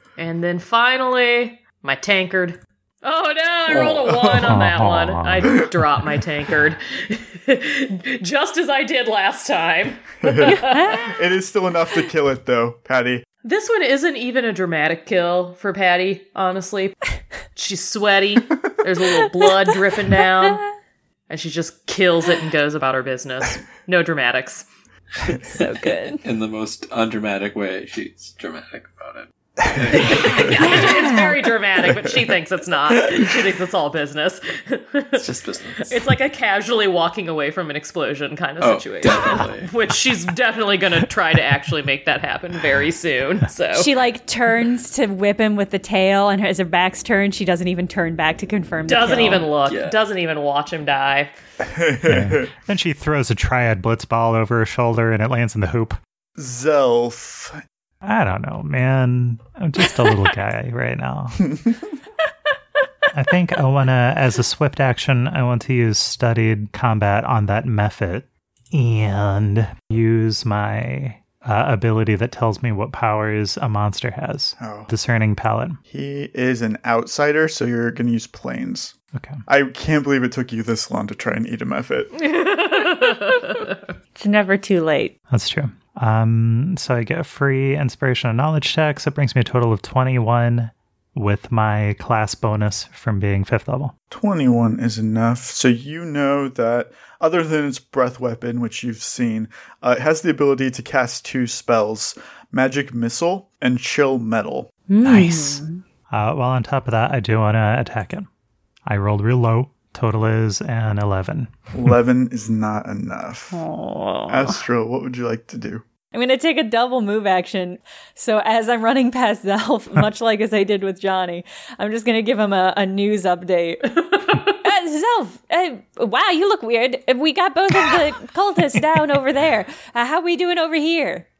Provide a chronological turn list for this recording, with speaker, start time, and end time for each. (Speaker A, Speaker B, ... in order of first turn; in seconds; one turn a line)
Speaker A: 0.2-11.0
Speaker B: 3.7-4.3
Speaker C: 4.4-5.7
Speaker D: 10.2-13.2
Speaker E: 10.5-11.1
Speaker A: 13.4-17.0
Speaker A: 17.5-20.6
Speaker A: 21.3-24.6
Speaker E: 25.4-26.2
Speaker B: 26.2-31.1
Speaker D: 29.8-30.0
Speaker A: 30.1-35.3
Speaker E: 30.2-31.2
Speaker B: 35.1-36.0
Speaker A: 35.8-43.9
Speaker B: 38.6-39.7
Speaker E: 43.7-49.5
Speaker A: 48.9-51.3
Speaker B: 49.7-50.0
Speaker D: 51.6-52.5
Speaker C: 52.0-56.0
Speaker D: 56.4-57.6
Speaker C: 58.0-61.6
Speaker C: 63.1-75.8
Speaker D: 74.6-74.9
Speaker D: 75.9-78.9
Speaker C: 79.1-79.4
Speaker D: 79.5-82.1
Speaker A: 82.2-83.8
Speaker E: 83.0-83.5
Speaker E: 84.2-85.1
Speaker C: 85.3-93.9
Speaker D: 94.1-104.7
Speaker E: 104.9-105.8
Speaker C: 105.0-108.3
Speaker C: 108.8-111.5
Speaker D: 111.7-113.6
Speaker E: 113.5-114.6
Speaker D: 114.3-115.8
Speaker E: 116.1-131.2